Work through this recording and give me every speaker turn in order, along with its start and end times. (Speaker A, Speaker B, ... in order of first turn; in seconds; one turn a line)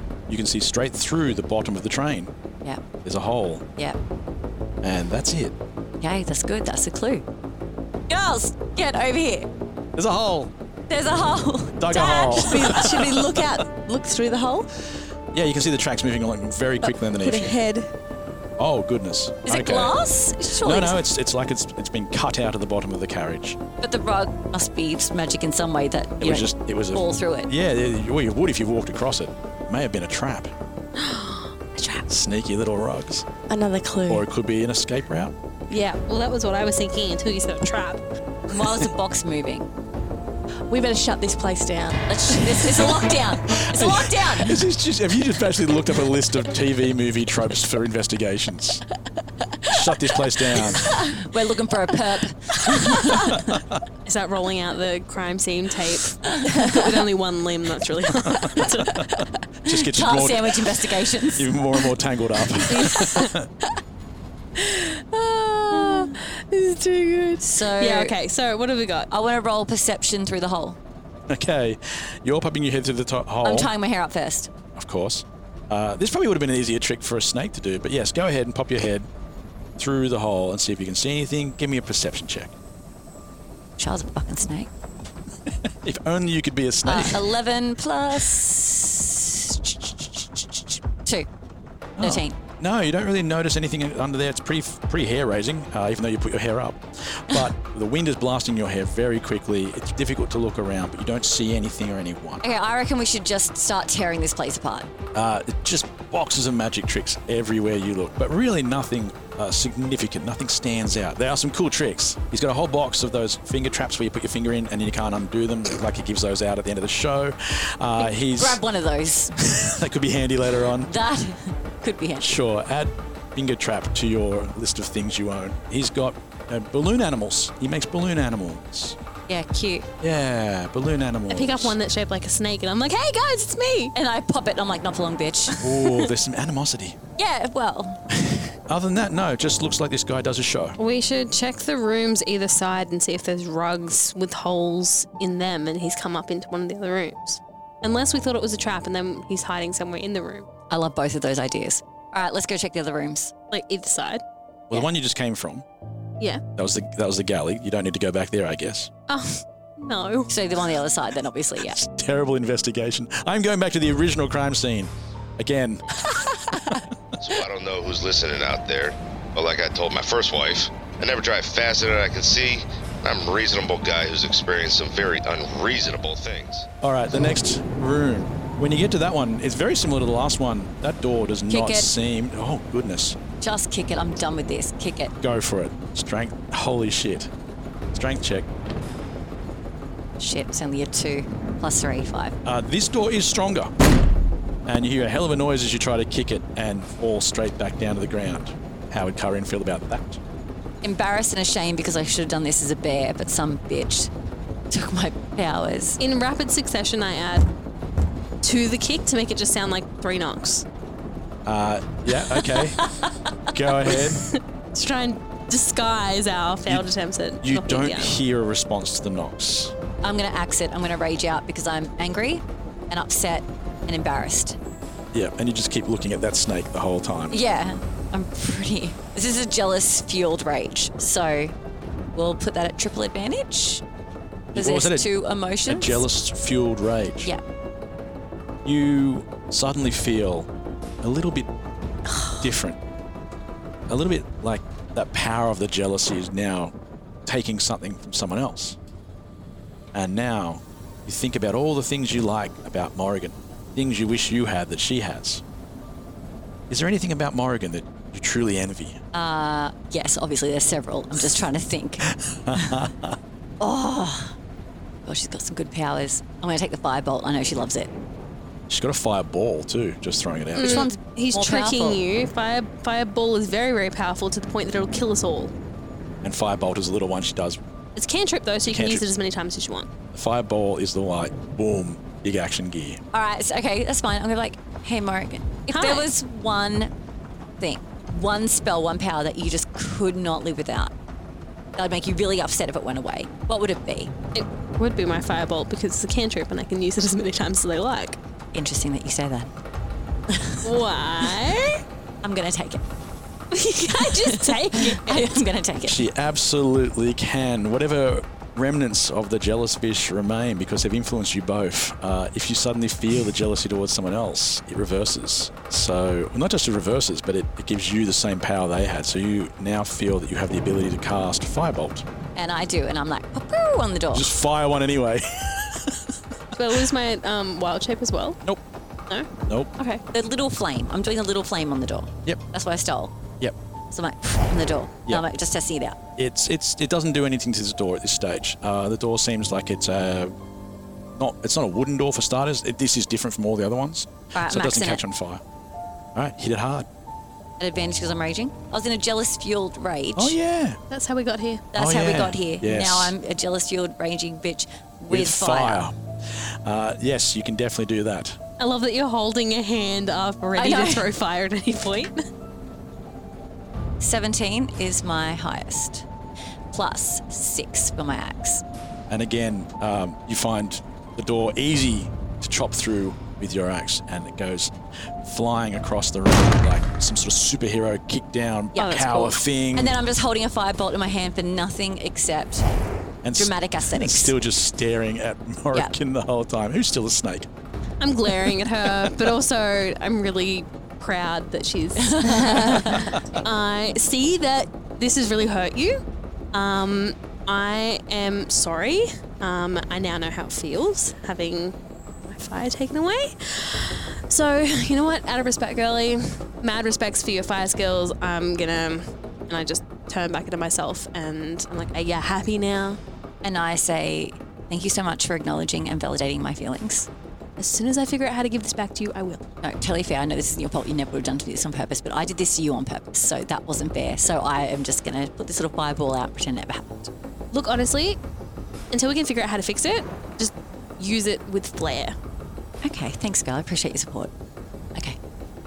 Speaker A: 0.3-2.3
Speaker A: 3.0-3.7
Speaker A: 4.8-5.6
Speaker B: 6.0-7.2
Speaker B: 8.1-9.5
Speaker A: 10.0-10.5
Speaker B: 10.9-12.5
Speaker A: 11.8-13.4
Speaker C: 12.2-14.7
Speaker A: 15.3-17.6
Speaker C: 16.8-17.9
Speaker A: 18.6-19.9
Speaker B: 19.5-21.0
Speaker A: 20.6-23.6
Speaker B: 23.8-27.5
Speaker A: 26.2-30.5
Speaker D: 31.0-32.0
Speaker A: 32.1-33.2
Speaker C: 33.5-34.3
Speaker A: 34.1-35.4
Speaker D: 35.7-38.0
Speaker B: 38.5-39.7
Speaker C: 40.7-42.9
Speaker B: 42.1-44.6
Speaker A: 43.5-48.8
Speaker A: 49.7-50.9
Speaker B: 51.1-53.3
Speaker A: 53.3-53.8
Speaker D: 54.1-59.0
Speaker A: 58.3-60.6
Speaker B: 59.7-61.5
Speaker A: 61.4-63.5
Speaker C: 64.6-67.5
Speaker B: 67.4-68.2
Speaker D: 67.8-69.1
Speaker B: 69.1-70.8
Speaker A: 71.3-73.7
Speaker B: 73.4-74.5
Speaker A: 74.8-79.1
Speaker A: 79.8-82.5
Speaker B: 83.8-84.7
Speaker A: 85.5-87.3
Speaker B: 86.8-91.3
Speaker A: 92.0-102.4
Speaker B: 92.0-92.4
Speaker B: 102.4-104.9
Speaker A: 105.1-118.6
Speaker B: 118.0-119.3
Speaker A: 119.5-120.9
Speaker B: 120.9-122.4
Speaker A: 122.2-129.0
Speaker B: 129.3-129.9
Speaker A: 130.0-131.8
Speaker D: 131.3-133.9
Speaker B: 133.9-135.6
Speaker A: 135.6-137.0
Speaker B: 137.2-138.0
Speaker A: 138.3-140.8
Speaker D: 140.8-150.5
Speaker B: 150.7-153.3
Speaker D: 153.5-154.2
Speaker A: 154.7-155.7
Speaker A: 156.6-158.9
Speaker D: 159.1-160.3
Speaker B: 160.3-161.8
Speaker A: 161.7-165.9
Speaker A: 166.5-166.9
Speaker E: 167.2-176.7
Speaker A: 176.8-183.2
Speaker B: 181.5-181.9
Speaker B: 183.4-185.1
Speaker A: 185.2-187.3
Speaker A: 187.9-188.5
Speaker B: 190.2-192.3
Speaker A: 192.4-193.7
Speaker A: 194.7-200.2
Speaker B: 200.8-204.1
Speaker B: 204.7-206.0
Speaker D: 206.0-207.5
Speaker D: 208.4-210.7
Speaker A: 211.5-212.8
Speaker B: 212.6-213.1
Speaker A: 213.5-214.2
Speaker D: 214.1-218.2
Speaker A: 217.4-219.7
Speaker B: 220.0-224.6
Speaker A: 225.1-227.4
Speaker B: 227.3-231.5
Speaker B: 232.2-233.8
Speaker A: 234.5-235.1
Speaker B: 234.6-236.0
Speaker A: 235.7-237.3
Speaker A: 238.7-240.5
Speaker A: 241.0-241.5
Speaker A: 242.4-242.8
Speaker A: 243.9-246.7
Speaker A: 247.3-248.8
Speaker A: 249.9-255.4
Speaker A: 256.7-259.0
Speaker B: 259.1-262.1
Speaker A: 262.1-263.2
Speaker B: 263.6-264.4
Speaker B: 265.1-267.9
Speaker A: 268.7-270.9
Speaker D: 270.6-275.5
Speaker B: 270.6-272.0
Speaker A: 276.2-277.6
Speaker D: 278.0-279.9
Speaker A: 278.7-279.1
Speaker A: 280.1-283.0
Speaker B: 283.1-286.9
Speaker D: 285.7-286.1
Speaker B: 287.6-290.9
Speaker B: 291.8-294.1
Speaker D: 294.3-298.2
Speaker B: 298.5-299.5
Speaker D: 300.6-301.8
Speaker B: 302.2-302.8
Speaker D: 303.5-305.4
Speaker B: 303.9-306.1
Speaker A: 305.9-322.1
Speaker B: 322.4-324.3
Speaker A: 324.1-326.0
Speaker D: 326.6-328.4
Speaker D: 329.1-330.0
Speaker B: 330.1-333.1
Speaker B: 333.9-336.0
Speaker A: 336.2-340.4
Speaker A: 341.2-345.4
Speaker B: 344.3-345.0
Speaker A: 346.1-346.9
Speaker B: 347.6-350.4
Speaker A: 350.2-350.8
Speaker D: 350.9-351.7
Speaker B: 351.7-355.8
Speaker A: 351.8-353.1
Speaker A: 355.1-358.4
Speaker D: 358.6-362.2
Speaker B: 360.6-361.1
Speaker B: 364.0-366.1
Speaker B: 366.7-368.6
Speaker A: 369.1-379.9
Speaker B: 378.8-379.2
Speaker D: 378.8-379.4
Speaker B: 379.7-382.7
Speaker A: 383.2-387.5
Speaker B: 383.4-384.3
Speaker D: 388.0-413.0
Speaker B: 392.0-393.1
Speaker B: 413.4-417.1
Speaker D: 417.6-419.4
Speaker B: 419.6-427.1
Speaker D: 427.5-428.2
Speaker D: 428.9-432.2
Speaker B: 432.8-434.3